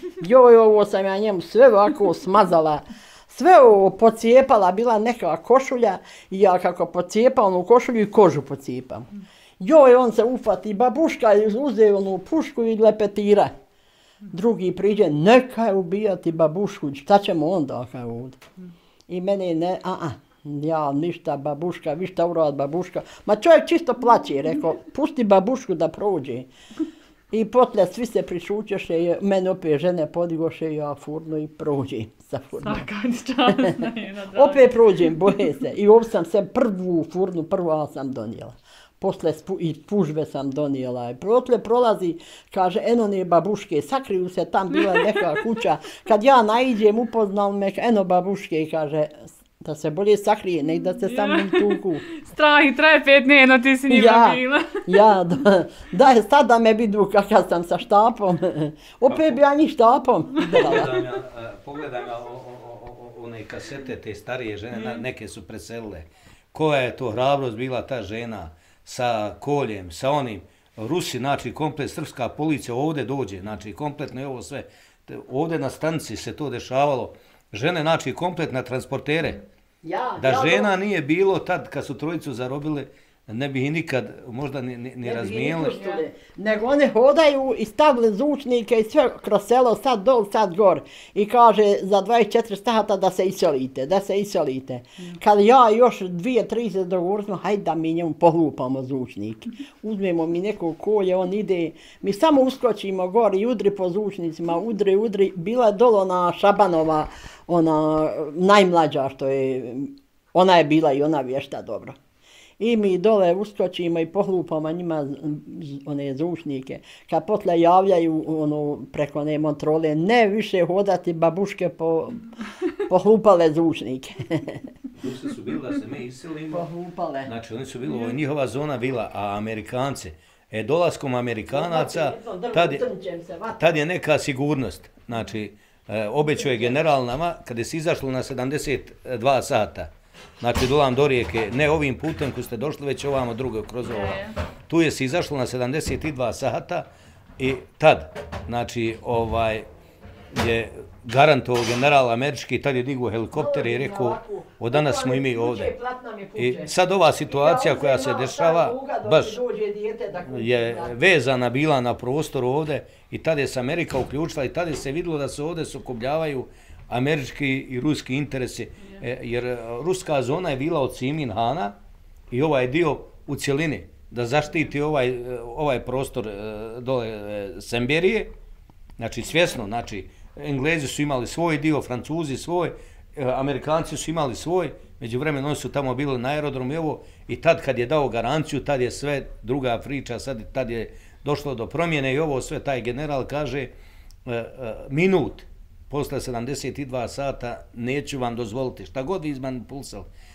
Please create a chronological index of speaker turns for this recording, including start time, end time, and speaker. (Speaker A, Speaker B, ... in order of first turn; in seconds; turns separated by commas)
Speaker A: 0.2-9.1, Speaker A: 9.6-13.5, Speaker A: 14.3-18.4, Speaker A: 19.1-26.5, Speaker A: 27.3-32.9, Speaker B: 32.6-35.1, Speaker A: 33.5-52.0, Speaker B: 44.8-45.4, Speaker B: 50.9-55.0, Speaker A: 53.9-61.0, Speaker C: 59.1-59.4, Speaker C: 60.5-79.4, Speaker B: 64.8-65.0, Speaker A: 79.8-80.7, Speaker C: 80.2-85.8, Speaker A: 85.0-112.0, Speaker B: 85.8-86.0, Speaker A: 112.6-122.3, Speaker A: 122.9-124.6, Speaker C: 124.9-126.7, Speaker A: 126.5-127.3, Speaker C: 127.3-132.8, Speaker A: 131.5-133.7, Speaker C: 133.6-146.9, Speaker A: 136.3-136.8, Speaker B: 143.8-144.4, Speaker C: 147.4-149.7, Speaker C: 150.3-155.7, Speaker A: 153.3-156.7, Speaker C: 156.4-159.4, Speaker A: 157.3-160.9, Speaker C: 160.3-171.8, Speaker C: 172.3-178.3, Speaker C: 179.0-193.7, Speaker C: 194.3-200.1